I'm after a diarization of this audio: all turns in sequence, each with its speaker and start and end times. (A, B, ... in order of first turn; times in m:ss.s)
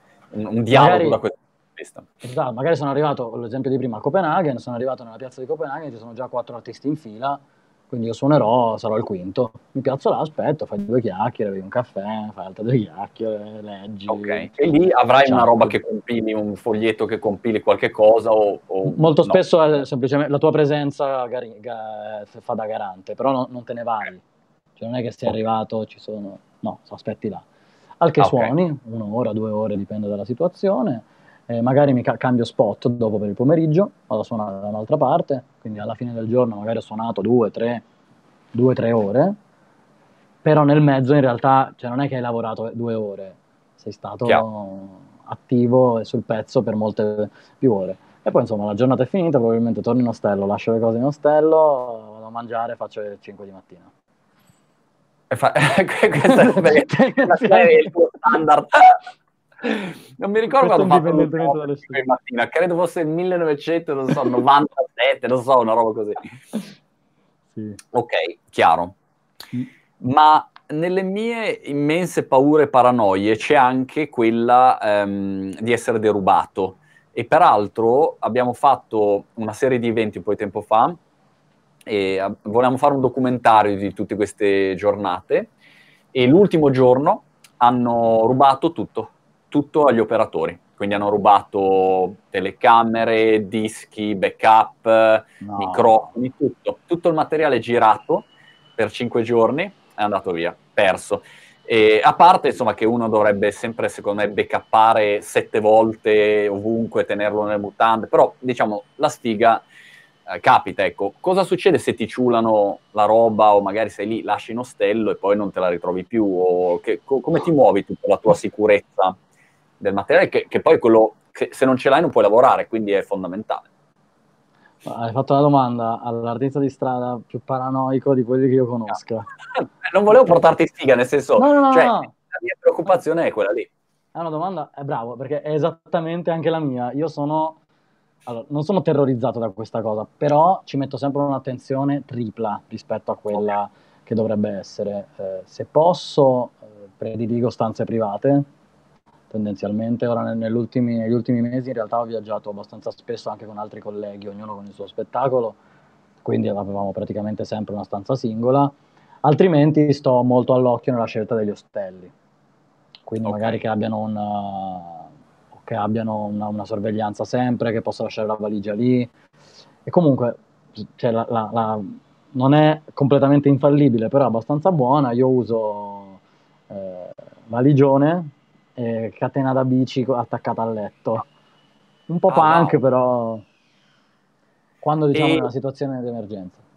0:00.3-0:02.1 A
0:00.7-0:01.2 B
0:02.2-0:14.5 B
0:14.1-0:19.4 A
0:15.2-0:15.7 B
0:18.8-0:24.2 B
0:24.8-0:27.4 B
0:28.0-0:37.8 B
0:28.2-0:28.5 A
0:38.5-0:39.4 B
0:40.4-0:53.9 B
0:55.3-0:59.0 A
0:56.3-0:57.9 B
0:59.6-1:06.3 A
1:00.5-1:02.0 B
1:07.5-1:07.8 B
1:07.9-1:09.0 A
1:10.0-1:21.0 A
1:21.9-1:25.5 A
1:26.1-1:49.6 A
1:35.4-1:36.1 B
1:50.3-1:59.2 A
1:59.8-2:03.7 A
2:04.8-2:09.3 B
2:09.5-2:13.7 A
2:11.4-2:12.1 B
2:14.1-2:17.6 B
2:18.2-2:28.5 B
2:29.3-2:35.6 B
2:36.2-2:42.1 B
2:43.1-2:49.1 B
2:43.2-2:43.6 A
2:49.8-3:01.2 B
3:02.1-3:03.4 B
3:02.3-3:02.8 A
3:04.8-3:06.6 B
3:05.1-3:05.5 A